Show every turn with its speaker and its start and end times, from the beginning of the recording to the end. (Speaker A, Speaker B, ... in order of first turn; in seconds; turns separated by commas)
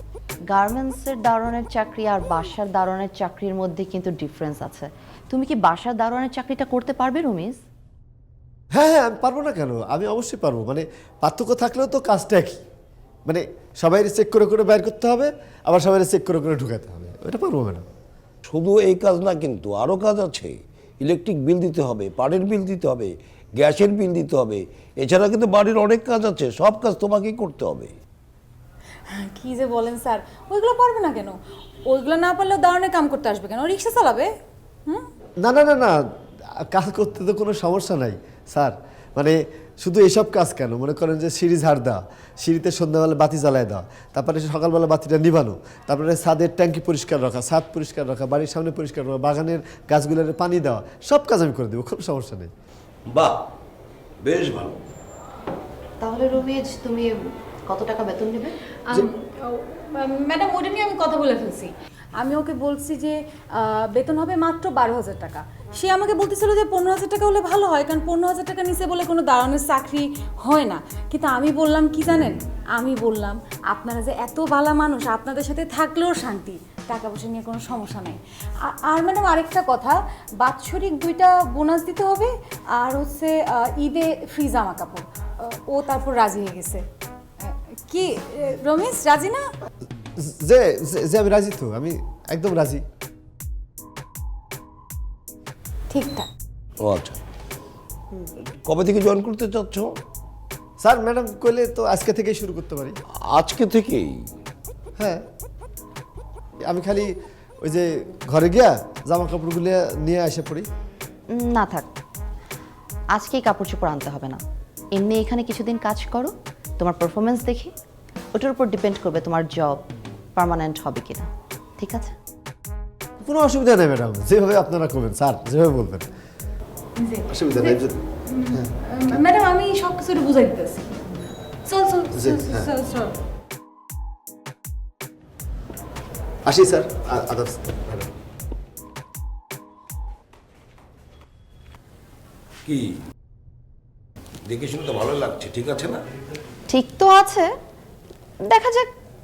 Speaker A: 0.5-7.6, Speaker B: 8.7-12.6, Speaker B: 13.2-17.9, Speaker C: 18.5-27.9, Speaker D: 29.1-34.3, Speaker B: 35.4-36.0, Speaker B: 36.6-52.5, Speaker C: 53.1-53.4, Speaker C: 54.2-54.8, Speaker A: 56.0-58.6, Speaker D: 58.9-86.8, Speaker D: 87.4-89.5, Speaker B: 90.2-92.8, Speaker D: 95.9-96.3, Speaker C: 96.8-97.2, Speaker C: 98.6-99.9, Speaker B: 100.8-103.0, Speaker C: 103.2-104.2, Speaker B: 105.0-105.2, Speaker B: 106.6-110.7, Speaker A: 111.3-111.9, Speaker A: 113.1-114.4, Speaker A: 114.9-117.7, Speaker A: 118.3-119.8, Speaker A: 120.4-122.2, Speaker B: 123.2-126.1, Speaker D: 127.0-127.7, Speaker B: 127.3-128.0, Speaker D: 128.3-130.9, Speaker D: 131.7-133.1, Speaker B: 132.1-132.7, Speaker B: 136.5-138.1, Speaker C: 142.7-143.0, Speaker C: 144.5-146.0, Speaker A: 146.7-147.5, Speaker A: 148.4-148.9